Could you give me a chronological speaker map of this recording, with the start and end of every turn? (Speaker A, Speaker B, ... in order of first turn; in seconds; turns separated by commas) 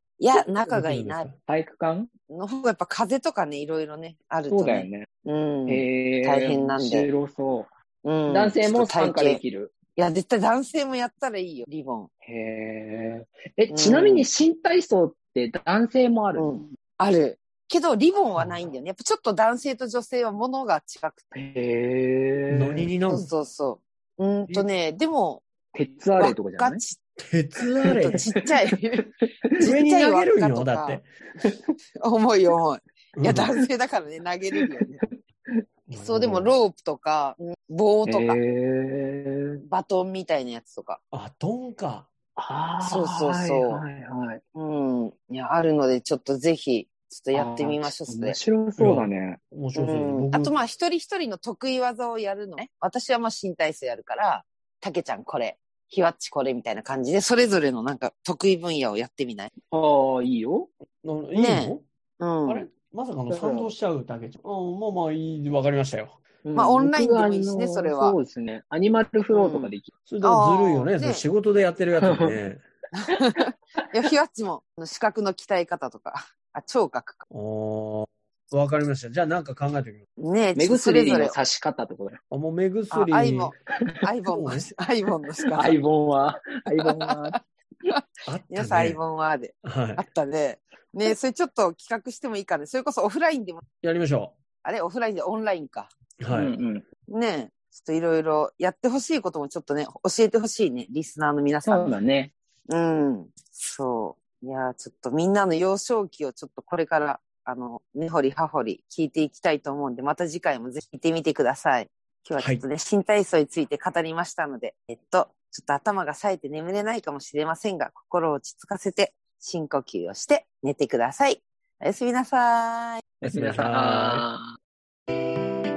Speaker A: 0.2-1.3, Speaker B: 0.7-1.3, Speaker C: 1.5-2.1, Speaker A: 2.3-7.1, Speaker C: 4.5-5.1, Speaker C: 5.7-7.7, Speaker A: 8.0-9.4, Speaker C: 8.3-9.7, Speaker A: 9.9-12.1, Speaker C: 12.2-16.7, Speaker A: 13.7-14.3, Speaker A: 16.4-21.2, Speaker B: 18.3-18.7, Speaker C: 21.3-22.9, Speaker B: 22.5-23.3, Speaker A: 23.1-25.4, Speaker C: 25.7-26.8, Speaker A: 26.2-27.0, Speaker B: 27.2-28.2, Speaker A: 27.9-29.0, Speaker B: 29.6-31.1, Speaker A: 29.6-31.0, Speaker A: 32.0-35.1, Speaker B: 33.1-33.5, Speaker C: 35.0-35.6, Speaker B: 35.9-36.5, Speaker A: 36.0-38.4, Speaker C: 38.0-39.5, Speaker A: 39.6-41.0, Speaker B: 41.1-42.1, Speaker C: 42.4-44.4, Speaker A: 42.8-43.8, Speaker A: 44.5-48.4, Speaker C: 47.3-49.4, Speaker B: 48.8-50.5, Speaker A: 49.7-59.5, Speaker C: 59.7-60.7, Speaker B: 61.0-61.8, Speaker A: 61.3-62.7, Speaker B: 62.5-66.2, Speaker C: 63.3-63.7, Speaker C: 66.4-69.9, Speaker A: 66.5-68.2, Speaker A: 69.3-71.2, Speaker B: 70.1-72.6, Speaker C: 72.0-72.3, Speaker A: 72.9-77.2, Speaker B: 77.3-80.0, Speaker A: 80.2-81.4, Speaker C: 80.5-82.2, Speaker B: 82.3-83.5, Speaker A: 82.9-85.8, Speaker B: 84.3-84.7, Speaker C: 85.5-87.4, Speaker A: 86.7-87.2, Speaker A: 87.9-93.6, Speaker B: 88.3-89.0, Speaker B: 89.6-90.0, Speaker B: 93.8-94.3, Speaker A: 94.6-95.9, Speaker B: 96.2-96.5, Speaker C: 96.3-96.8, Speaker A: 97.1-102.0, Speaker C: 101.6-102.3, Speaker A: 102.7-123.0, Speaker B: 112.4-112.6, Speaker C: 123.2-124.5, Speaker B: 123.2-124.2